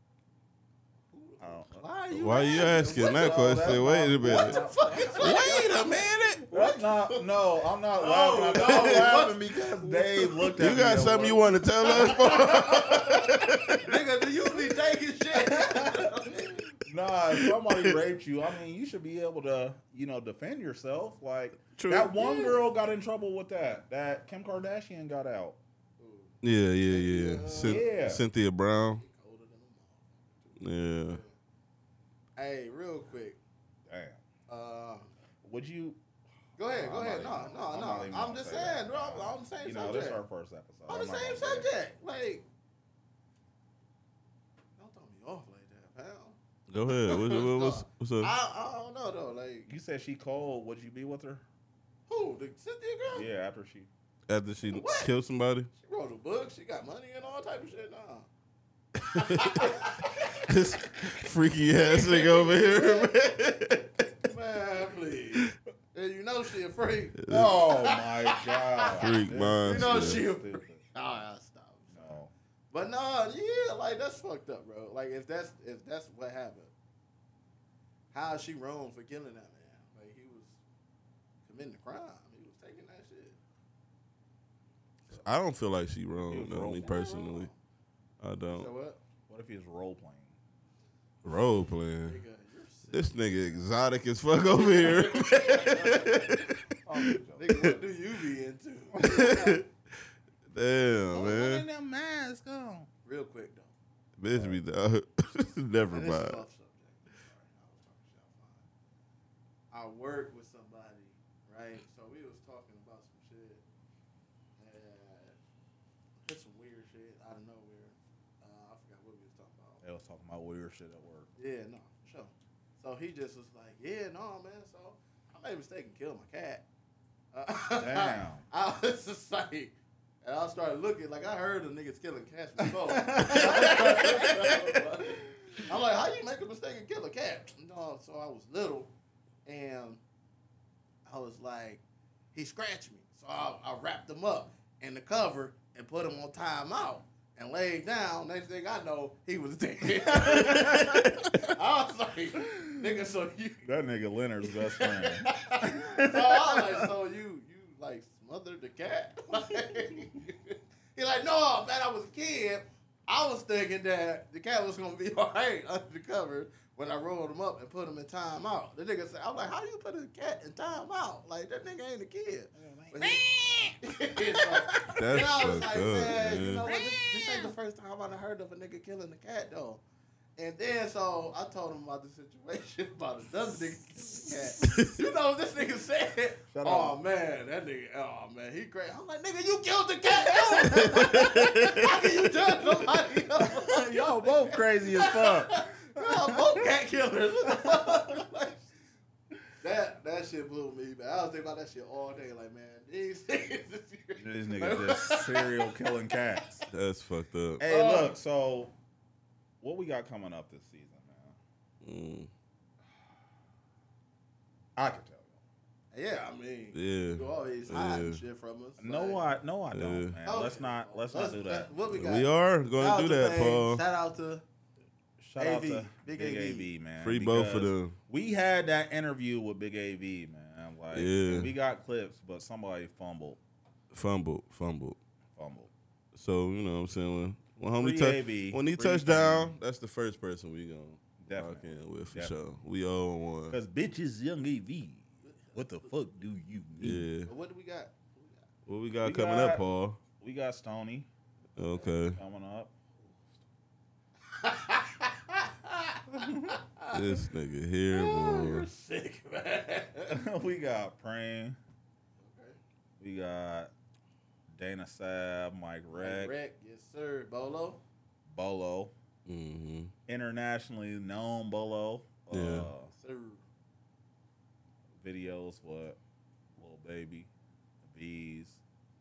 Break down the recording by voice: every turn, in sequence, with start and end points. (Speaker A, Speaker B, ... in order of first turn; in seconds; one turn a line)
Speaker A: 1.1-5.9
Speaker B: 1.4-5.6
Speaker C: 2.1-4.6
Speaker C: 5.2-6.5
Speaker A: 6.5-7.3
Speaker B: 6.5-12.1
Speaker A: 7.9-10.5
Speaker C: 8.6-9.1
Speaker C: 10.6-13.9
Speaker A: 11.8-16.7
Speaker B: 15.3-16.3
Speaker B: 16.8-25.6
Speaker C: 17.3-18.0
Speaker C: 21.7-22.6
Speaker A: 26.0-27.9
Speaker C: 26.4-29.0
Speaker B: 27.6-28.2
Speaker A: 28.9-31.3
Speaker C: 30.6-31.2
Speaker A: 32.4-33.4
Speaker B: 33.9-34.2
Speaker A: 34.5-35.1
Speaker B: 35.4-36.0
Speaker A: 36.6-40.2
Speaker B: 36.6-41.7
Speaker A: 40.9-42.4
Speaker A: 44.8-49.7
Speaker C: 46.7-48.3
Speaker B: 49.7-51.4
Speaker A: 52.1-53.3
Speaker B: 53.1-53.9
Speaker C: 54.3-55.7
Speaker A: 54.6-55.1
Speaker A: 55.7-58.3
Speaker C: 59.0-59.8
Speaker A: 59.1-60.5
Speaker C: 60.4-64.1
Speaker A: 61.7-63.3
Speaker A: 64.0-69.1
Speaker C: 67.2-67.5
Speaker B: 67.3-70.8
Speaker C: 68.9-70.3
Speaker A: 69.6-72.2
Speaker B: 71.9-72.3
Speaker A: 72.7-76.7
Speaker A: 78.1-80.6
Speaker A: 81.5-83.4
Speaker C: 85.1-87.5
Speaker B: 86.3-87.3
Speaker A: 86.8-87.5
Speaker C: 88.2-88.7
Speaker A: 88.5-89.0
Speaker B: 89.3-90.3
Speaker C: 91.2-92.2
Speaker A: 92.0-93.6
Speaker C: 92.9-97.2
Speaker A: 94.6-96.3
Speaker B: 96.8-97.8
Speaker A: 97.4-99.6
Speaker C: 99.0-99.7
Speaker B: 99.0-99.4
Speaker C: 100.5-101.7
Speaker B: 101.1-102.9
Speaker A: 103.0-103.7
Speaker C: 104.2-106.4
Speaker A: 105.9-108.7
Speaker A: 109.7-113.6
Speaker A: 114.6-115.4
Speaker A: 116.2-119.8
Speaker B: 119.8-121.3
Speaker A: 121.4-126.6
Speaker A: 127.3-138.9
Speaker B: 127.8-128.4
Speaker B: 132.8-134.7
Speaker A: 139.4-140.0
Speaker A: 141.0-141.8
Speaker A: 142.3-153.7
Speaker B: 150.2-150.9
Speaker C: 150.6-151.3
Speaker B: 153.6-156.7
Speaker A: 154.5-179.8
Speaker B: 172.5-173.8
Speaker B: 174.4-175.0
Speaker C: 174.9-176.7
Speaker B: 176.6-177.5
Speaker A: 180.4-198.7
Speaker B: 186.5-187.0
Speaker C: 190.8-191.9
Speaker B: 193.4-196.7
Speaker B: 197.6-198.0
Speaker A: 199.6-205.8
Speaker B: 204.2-206.7
Speaker C: 206.7-207.6
Speaker B: 207.6-208.7
Speaker A: 207.6-208.2
Speaker B: 209.6-211.4
Speaker C: 211.8-212.3
Speaker B: 214.8-215.3
Speaker A: 215.9-219.2
Speaker C: 216.7-218.2
Speaker B: 218.8-221.7
Speaker C: 219.7-220.2
Speaker A: 220.2-224.4
Speaker C: 221.9-223.8
Speaker B: 225.2-233.4
Speaker A: 225.4-226.7
Speaker C: 227.0-227.9
Speaker C: 230.9-231.5
Speaker C: 233.9-235.0
Speaker B: 235.3-235.7
Speaker C: 236.1-243.6
Speaker B: 237.8-239.6
Speaker B: 241.2-242.3
Speaker B: 243.5-247.1
Speaker A: 245.2-245.9
Speaker C: 246.8-247.3
Speaker A: 247.2-248.4
Speaker C: 248.7-250.0
Speaker B: 249.0-249.6
Speaker B: 250.2-251.1
Speaker C: 251.6-252.2
Speaker B: 252.0-252.7
Speaker A: 254.3-257.0
Speaker B: 256.1-256.5
Speaker C: 256.9-258.7
Speaker A: 257.9-260.2
Speaker B: 260.1-261.6
Speaker A: 262.2-262.6
Speaker B: 263.0-263.7
Speaker B: 264.5-266.3
Speaker A: 265.9-267.8
Speaker B: 268.2-268.9
Speaker C: 269.2-269.9
Speaker B: 270.1-272.9
Speaker C: 272.3-272.7
Speaker A: 272.9-273.4
Speaker B: 275.0-276.0
Speaker B: 276.6-277.3
Speaker B: 277.8-278.6